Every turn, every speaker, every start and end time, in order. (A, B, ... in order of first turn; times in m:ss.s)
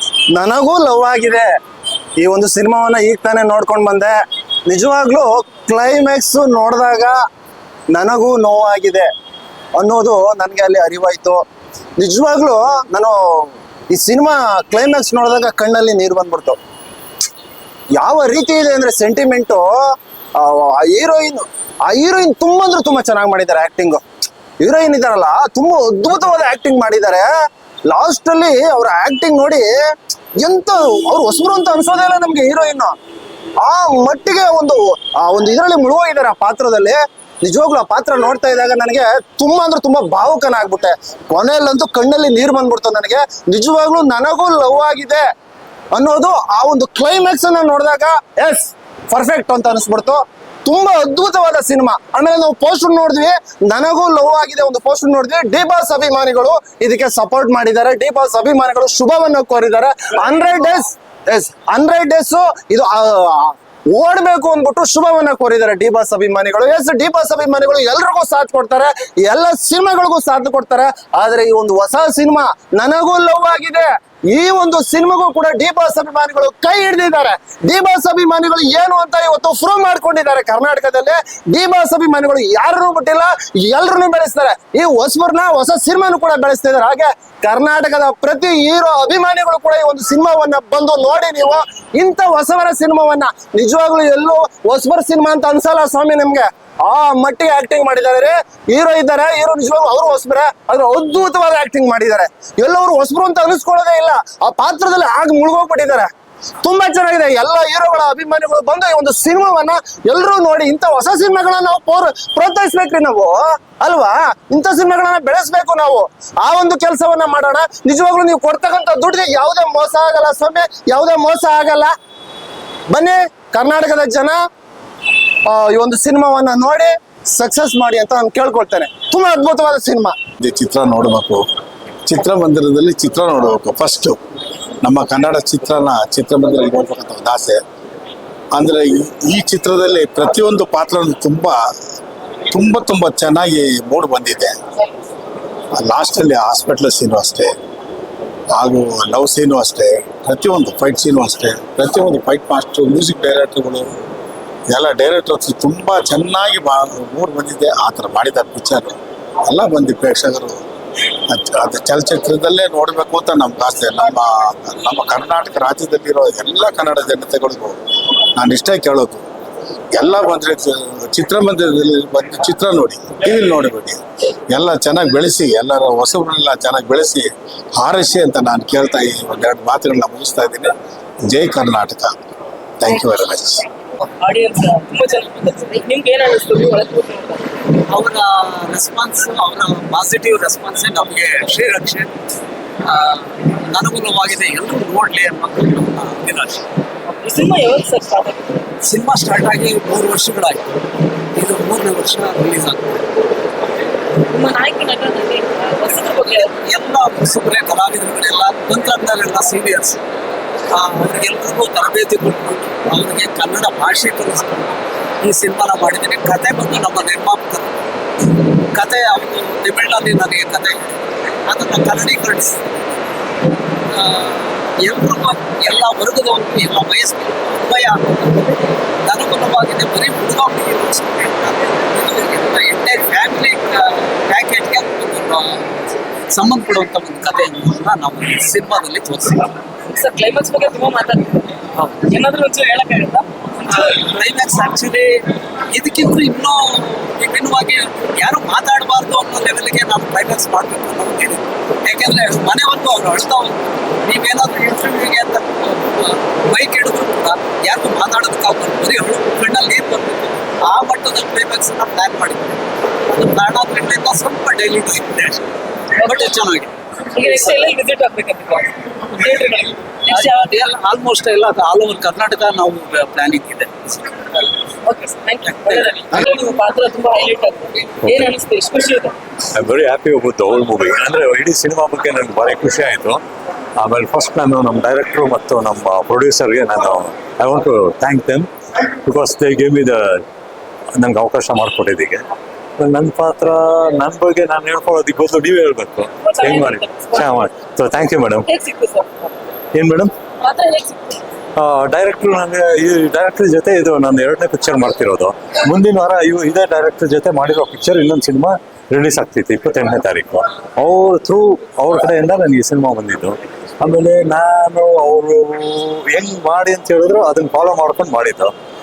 0:00.3-0:01.5 A
0:02.2-0:04.1 A
0:04.7-0:07.2 A
0:07.9-0:09.1 A
0:09.8-0:11.4 A
0:12.0-0:16.6 A
0:18.0-0:19.7 A
0:20.4-0:24.0 A
0:24.6-0:27.3 A
0:27.9-0:29.7 A
0:30.4-0:32.9 A
0:33.6-0:45.2 A
0:45.9-1:46.1 A
1:46.6-2:01.9 A
2:02.9-2:04.4 A
2:05.5-2:10.1 A
2:10.4-2:11.4 B
2:12.1-2:14.2 B
2:14.8-2:17.6 B
2:18.5-2:21.6 B
2:22.5-2:24.5 B
2:25.8-2:27.5 B
2:28.5-2:33.9 B
2:34.7-2:40.6 B
2:41.3-2:47.8 B
2:48.4-2:49.2 B
2:49.9-3:00.7 B
3:01.3-3:02.1 B
3:02.8-3:03.6 B
3:04.0-3:07.5 C
3:07.9-3:12.1 D
3:12.8-3:16.6 D
3:17.1-3:18.6 C
3:18.8-3:23.0 D
3:24.2-3:26.5 C
3:26.4-3:30.0 D
3:30.7-3:37.7 D
3:38.7-3:42.8 D
3:43.9-3:59.5 D
3:59.9-4:03.9 C
4:03.7-4:05.1 D
4:05.7-4:22.6 D
4:23.1-4:27.5 D
4:26.0-4:26.3 C
4:27.1-4:30.3 C
4:30.1-4:33.9 D
4:34.8-4:39.1 C
4:35.4-4:36.3 D
4:39.5-4:43.2 E
4:43.8-4:48.5 E
4:49.0-4:50.2 E
4:51.0-4:52.2 E
4:52.8-4:58.5 E
4:56.2-4:57.4 C
4:58.4-4:59.3 C
4:59.7-5:00.1 E
5:00.4-5:01.2 C
5:01.6-5:18.5 E